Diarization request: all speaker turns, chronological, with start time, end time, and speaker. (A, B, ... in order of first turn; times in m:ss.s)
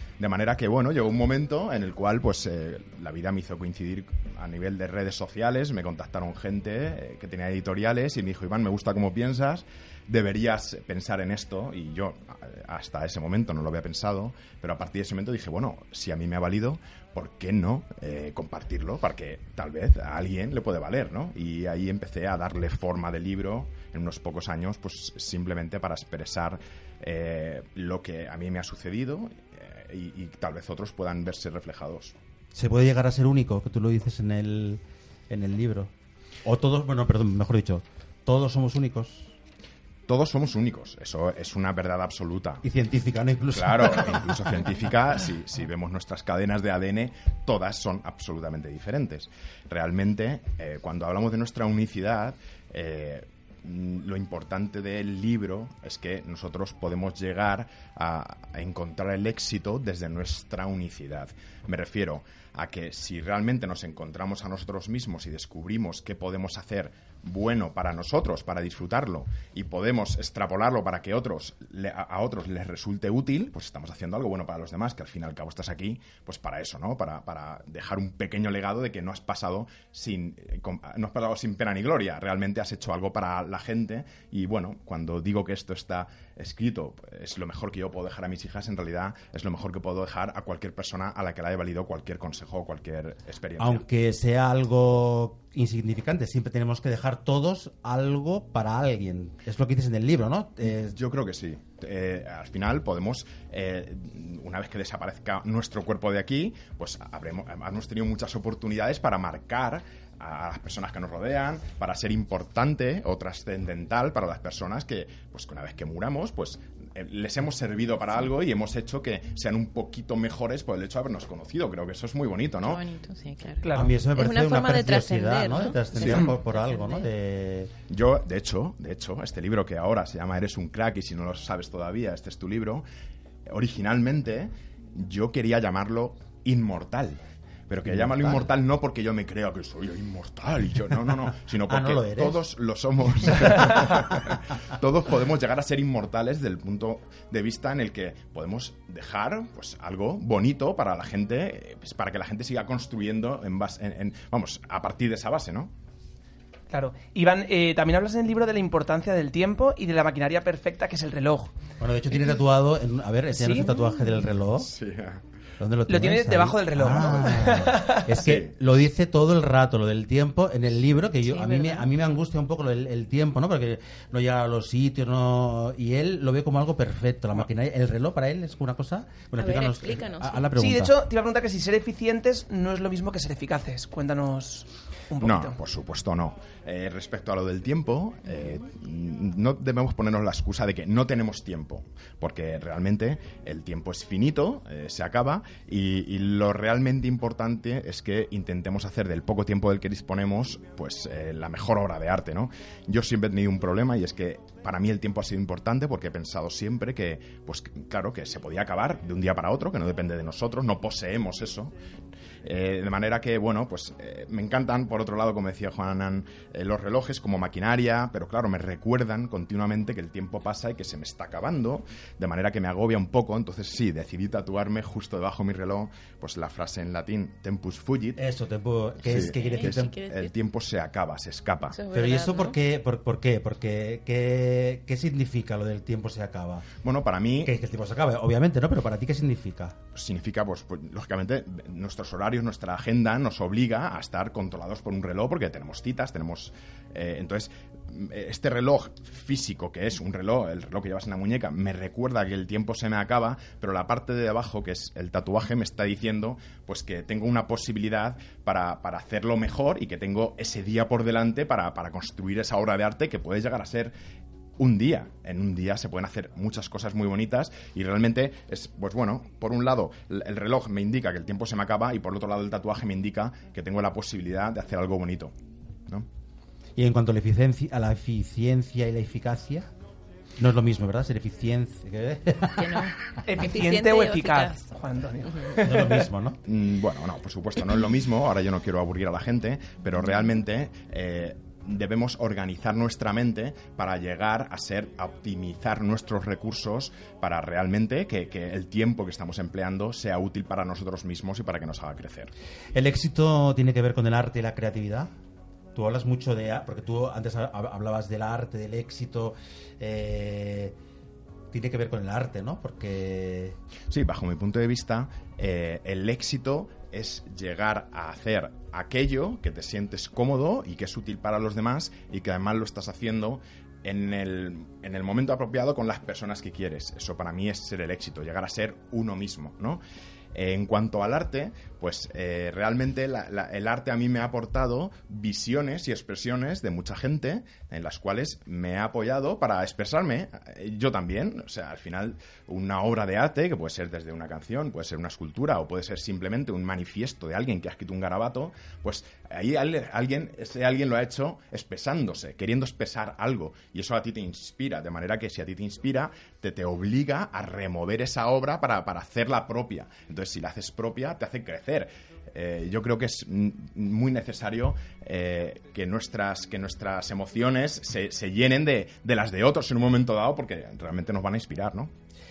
0:00.2-0:32.2 A
0:32.5-0:35.9 B
0:36.4-0:39.3 B
0:40.1-0:42.6 A
0:42.6-0:44.6 B
0:43.5-1:33.8 A
1:33.6-1:41.0 B
1:40.7-2:02.8 A
2:02.6-2:07.1 C
2:03.6-2:04.0 D
2:03.7-2:07.7 B
2:07.9-2:12.8 A
2:13.5-2:35.7 A
2:17.8-2:18.5 B
2:21.7-2:22.4 B
2:23.3-2:23.9 B
2:36.7-2:41.5 D
2:41.8-2:44.7 B
2:43.4-2:43.7 D
2:44.6-2:45.2 A
2:45.6-3:01.0 B
2:45.9-2:48.1 D
2:48.2-2:48.5 A
2:51.2-2:51.9 C
2:59.4-3:00.5 C
3:00.6-3:05.6 D
3:05.2-3:31.7 A
3:32.4-3:48.2 A
3:48.2-3:49.9 B
3:49.0-3:51.8 A
3:49.1-3:50.3 C
3:51.7-3:52.6 C
3:51.9-3:56.7 B
3:56.8-3:57.5 A
3:57.4-3:59.8 B
3:59.9-4:23.9 A
4:24.6-4:35.3 A
4:36.8-4:39.7 B
4:40.4-4:42.9 B
4:42.6-4:44.6 C
4:43.2-4:46.0 D
4:45.6-4:46.4 B
4:46.5-5:02.3 A
5:02.7-5:05.1 B
5:05.8-5:10.8 B
5:11.5-5:13.6 B
5:13.9-5:29.8 A
5:30.3-6:11.9 A